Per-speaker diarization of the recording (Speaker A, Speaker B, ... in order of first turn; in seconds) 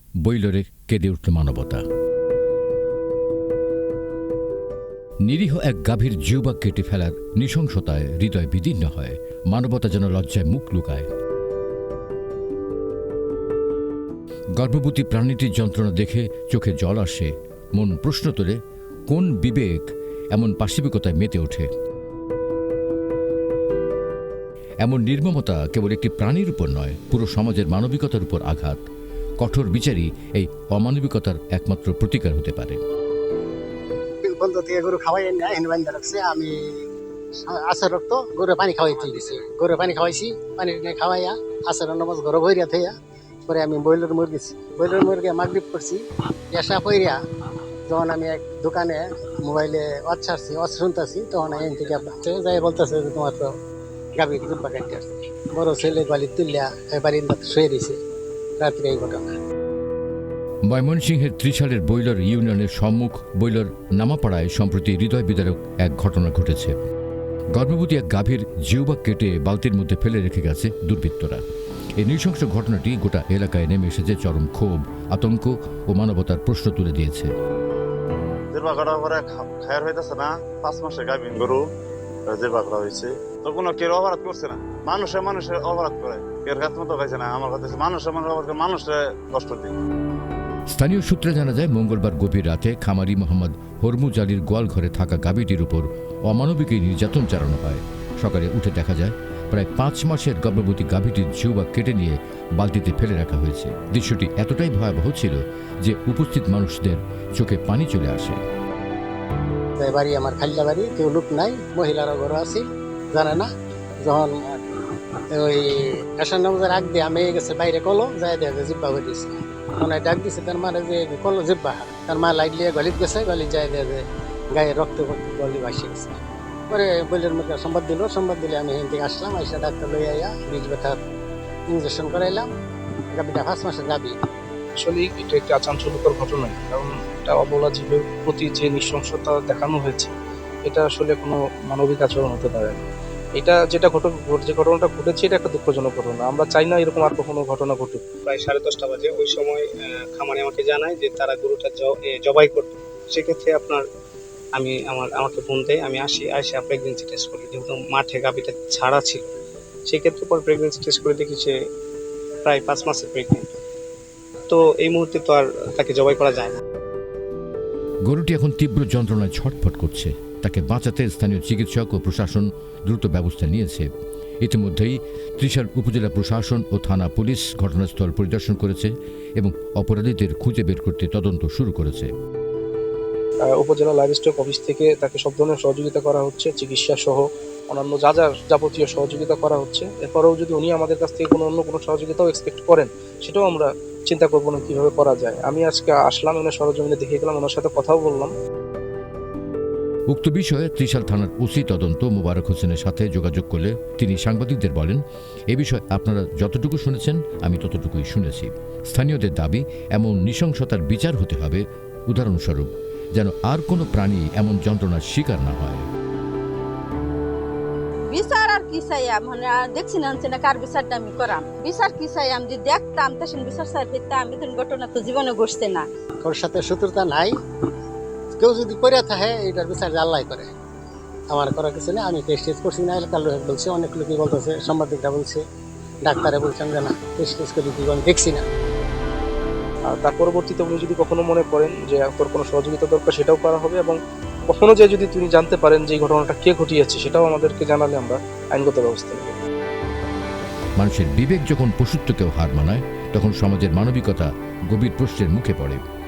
Speaker A: 0.2-1.8, 5.2-11.1, 14.6-21.7, 24.8-28.8, 29.4-32.8, 60.6-66.8, 67.5-71.4, 72.0-77.3, 90.7-108.4, 168.1-173.9, 174.4-182.1, 200.1-215.9, 250.8-255.8
Speaker B: 34.2-36.7, 37.4-42.9, 43.5-47.2, 47.9-53.5, 54.2-58.0, 58.6-59.3, 109.8-113.5, 114.0-131.0, 131.7-132.5, 133.1-134.2, 226.2-227.3, 228.3-230.5, 231.3-235.4, 236.0-238.4
Speaker C: 78.5-81.7, 82.3-89.8
Speaker D: 134.8-140.1, 140.7-142.8, 143.4-148.0, 183.5-198.3, 239.9-244.0, 244.5-249.3
Speaker E: 148.3-153.8, 154.6-159.3, 159.9-161.5, 162.4-163.5, 164.5-166.6
Speaker F: 218.1-225.9